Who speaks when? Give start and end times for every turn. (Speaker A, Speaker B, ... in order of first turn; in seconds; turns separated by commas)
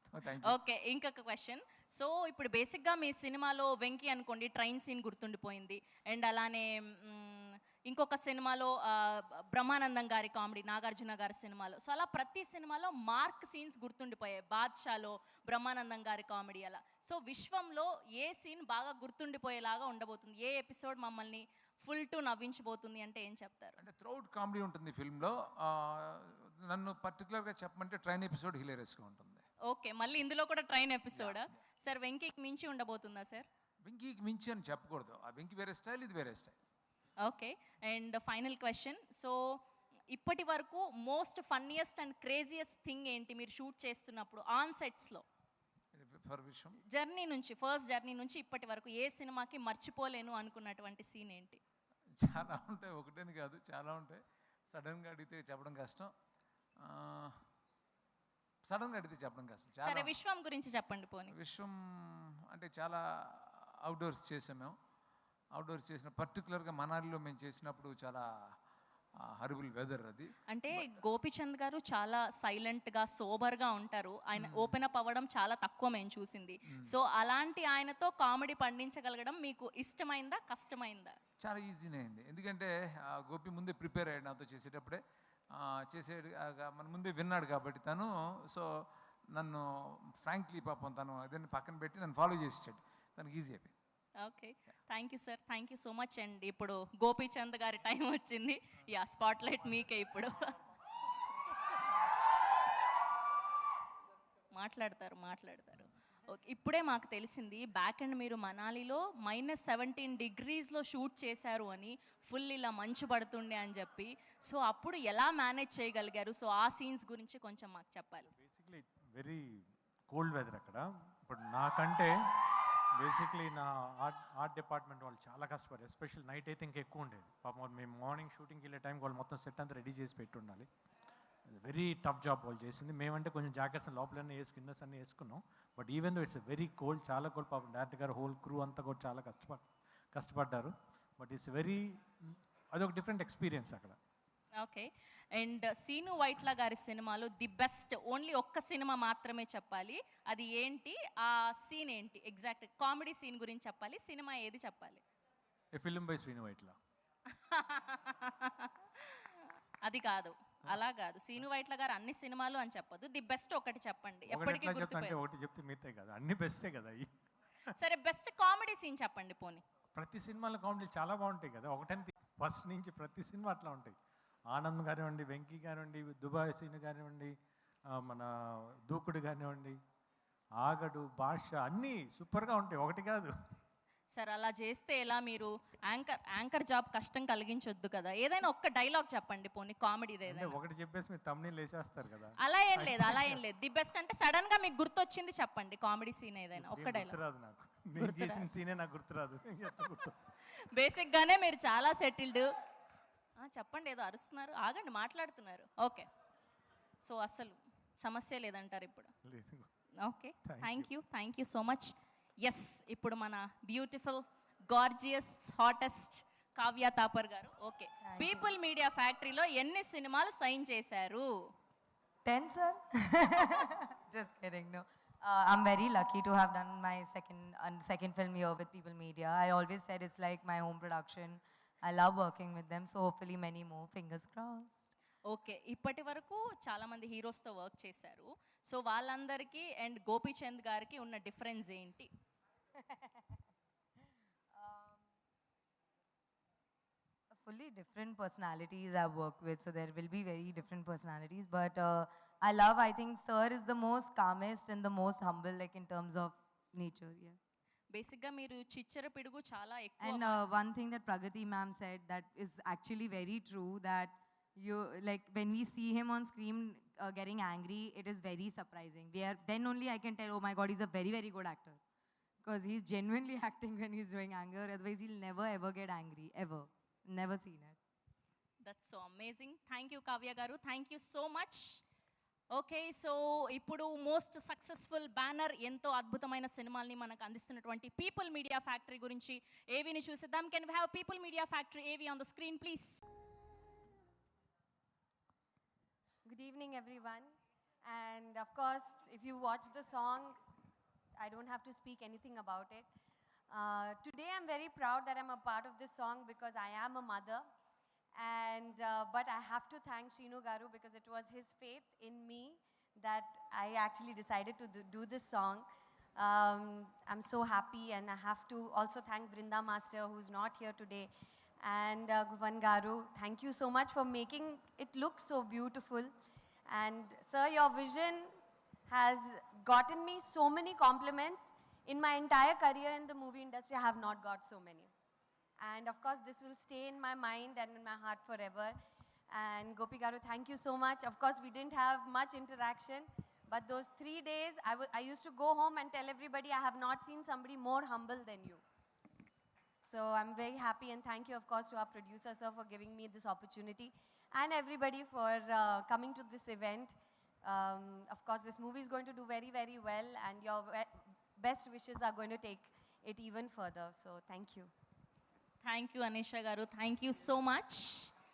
Speaker A: 0.1-0.6, Speaker B: 0.4-23.8, Speaker A: 23.8-29.4, Speaker B: 29.6-33.5, Speaker A: 31.1-31.4, Speaker A: 33.8-36.5, Speaker B: 37.2-39.4, Speaker B: 40.1-45.2, Speaker A: 45.9-46.8, Speaker B: 46.9-51.6, Speaker A: 52.2-56.1, Speaker A: 56.8-57.4, Speaker A: 58.6-60.1, Speaker B: 59.8-61.3, Speaker A: 61.3-64.7, Speaker A: 65.5-68.2, Speaker A: 69.3-70.9, Speaker B: 70.5-81.2, Speaker A: 74.3-74.8, Speaker A: 81.4-85.0, Speaker A: 85.5-88.7, Speaker A: 89.3-93.7, Speaker B: 94.2-100.5, Speaker B: 104.5-118.3, Speaker C: 118.3-130.7, Speaker C: 131.5-144.0, Speaker B: 144.6-155.0, Speaker C: 155.7-156.8, Speaker B: 157.4-159.3, Speaker B: 159.8-165.2, Speaker C: 164.3-167.1, Speaker B: 167.7-169.6, Speaker C: 169.9-173.9, Speaker C: 174.5-177.3, Speaker C: 177.9-178.3, Speaker C: 178.9-179.8, Speaker C: 180.6-183.3, Speaker B: 184.2-190.6, Speaker C: 190.2-193.4, Speaker B: 192.4-197.2, Speaker C: 196.5-200.3, Speaker B: 198.0-198.5, Speaker B: 200.7-202.5, Speaker B: 203.4-206.1, Speaker B: 207.0-209.1, Speaker C: 209.2-209.7, Speaker B: 210.0-221.3, Speaker C: 210.4-210.9, Speaker D: 218.0-218.5, Speaker D: 222.2-234.9, Speaker B: 235.3-242.1, Speaker D: 242.8-243.2, Speaker D: 244.6-244.9, Speaker D: 247.3-257.4, Speaker B: 257.9-260.4, Speaker D: 260.0-271.8, Speaker D: 272.4-277.8, Speaker B: 278.6-281.8, Speaker B: 282.5-293.0, Speaker E: 296.2-297.3, Speaker E: 297.8-300.4, Speaker E: 301.2-302.9, Speaker E: 303.5-307.4, Speaker E: 308.1-315.6, Speaker E: 316.1-321.1, Speaker E: 321.6-326.1, Speaker E: 326.7-328.3, Speaker E: 328.9-334.9, Speaker E: 335.6-338.7, Speaker E: 339.3-348.6, Speaker E: 349.9-364.7, Speaker B: 365.6-368.1